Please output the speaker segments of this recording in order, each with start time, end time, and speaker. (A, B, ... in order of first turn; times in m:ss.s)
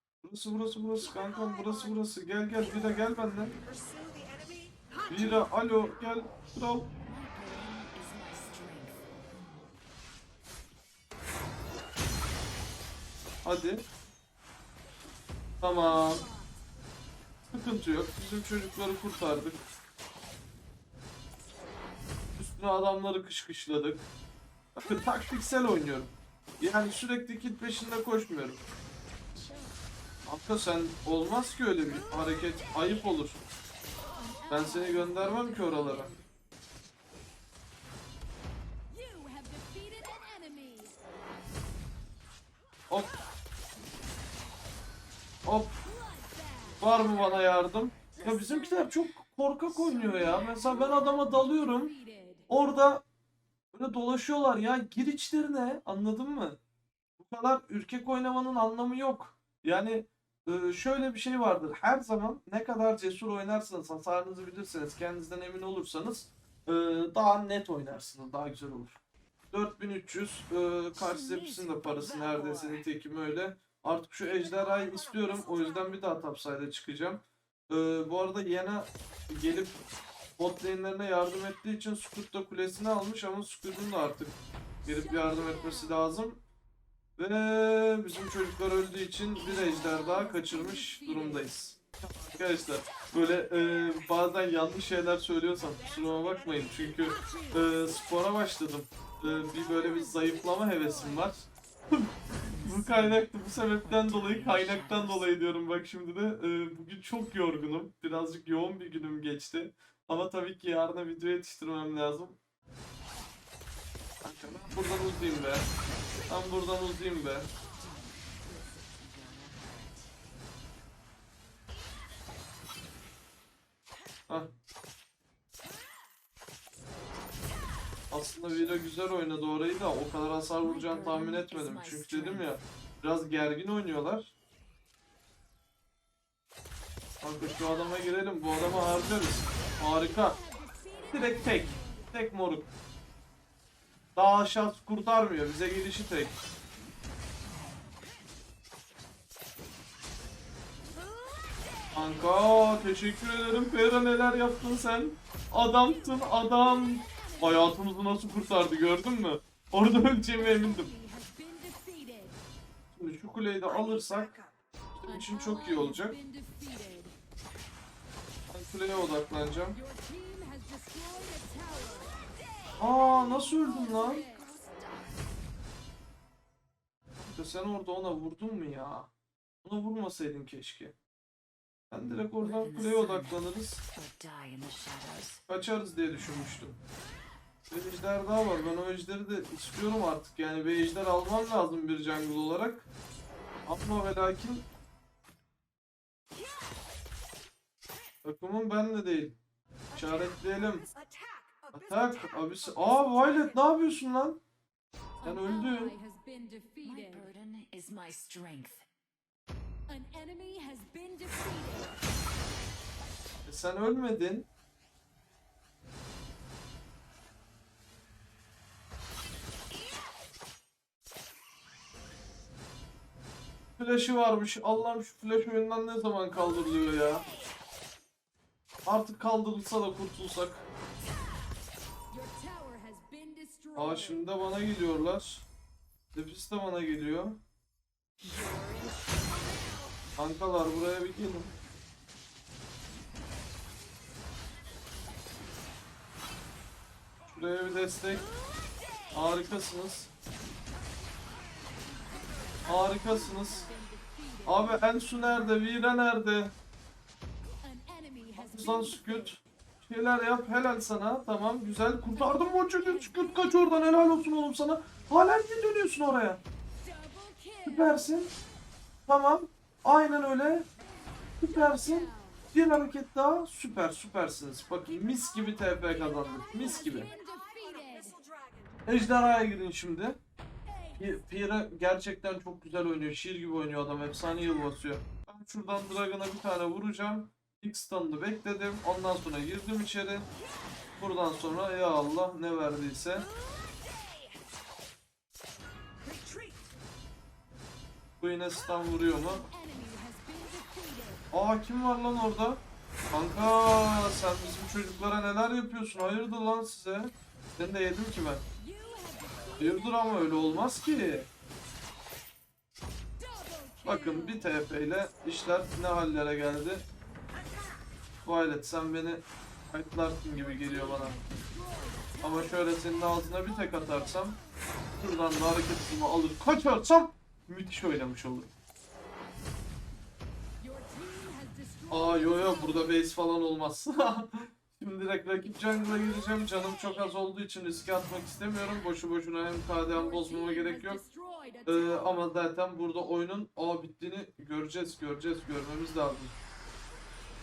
0:00.2-0:03.6 A
0:05.1-0:06.9 A
0:07.0-0:09.0 B
0:13.4-0:13.8 A
0:15.6-0:16.2 A
0:17.5-0:19.6 A
0:22.4-0:24.1 A
0:24.8-0:28.6 A
0:30.3-0:33.4 A
0:34.5-0:36.1 A
0:34.5-0:36.2 C
0:38.9-0:40.9 C
0:45.5-0:45.8 A
0:46.0-0:46.8 C
0:46.8-0:51.9 A
0:51.2-0:52.4 C
0:52.5-0:53.0 A
0:53.7-0:56.6 A
0:57.2-1:09.0 A
1:09.5-1:19.8 A
1:10.9-1:12.9 B
1:20.4-1:26.4 A
1:27.2-1:52.4 A
1:29.8-1:31.4 C
1:42.5-1:45.3 B
1:54.2-1:55.7 A
1:56.3-1:57.5 A
1:58.0-1:59.9 B
2:08.1-2:14.3 A
2:10.6-2:12.6 B
2:17.2-2:20.4 A
2:20.4-2:21.8 C
2:21.1-2:22.7 A
2:24.2-2:26.4 A
2:31.9-2:40.9 A
2:40.4-2:42.4 C
2:42.9-2:44.4 A
2:45.0-2:46.2 A
2:45.1-2:47.1 C
2:48.5-2:49.8 A
2:49.8-2:52.1 C
2:52.8-2:54.2 A
2:57.2-2:59.1 A
2:59.6-3:01.0 A
3:01.9-3:03.8 A
3:02.4-3:03.4 B
3:03.9-3:05.4 B
3:05.5-3:06.8 A
3:07.7-3:12.9 A
3:13.7-3:14.7 A
3:18.2-3:19.4 A
3:19.9-3:20.9 A
3:21.7-3:24.4 A
3:25.2-3:26.0 A
3:25.3-3:27.3 C
3:26.8-3:28.9 B
3:29.9-3:32.0 C
3:33.5-3:34.5 A
3:43.8-3:47.2 A
3:48.9-3:50.6 A
3:52.1-3:54.2 C
3:53.8-3:55.5 A
3:56.1-3:57.4 A
3:58.2-3:59.2 B
4:00.2-4:01.5 A
4:07.3-4:08.2 A
4:09.1-4:10.1 A
4:12.6-4:13.7 A
4:14.0-4:14.6 C
4:14.4-4:16.5 A
4:17.6-4:19.2 C
4:18.4-4:26.4 A
4:22.2-4:23.5 C
4:26.9-4:27.7 C
4:27.6-4:28.3 A
4:29.1-4:30.7 A
4:31.4-4:37.1 A
4:37.1-4:38.2 C
4:38.9-4:40.2 A
4:41.0-4:50.3 A
4:51.0-4:53.3 A
4:58.2-4:59.5 A
4:59.5-5:01.2 C
5:01.3-5:08.4 A
5:08.7-5:09.6 C
5:09.6-5:11.3 A
5:13.3-5:13.9 C
5:13.8-5:16.8 A
5:18.2-5:21.2 A
5:21.1-5:22.2 C
5:22.2-5:24.4 A
5:25.0-5:28.5 A
5:30.6-5:32.8 C
5:31.9-5:41.0 A
5:40.2-5:41.8 C
5:41.6-5:46.4 A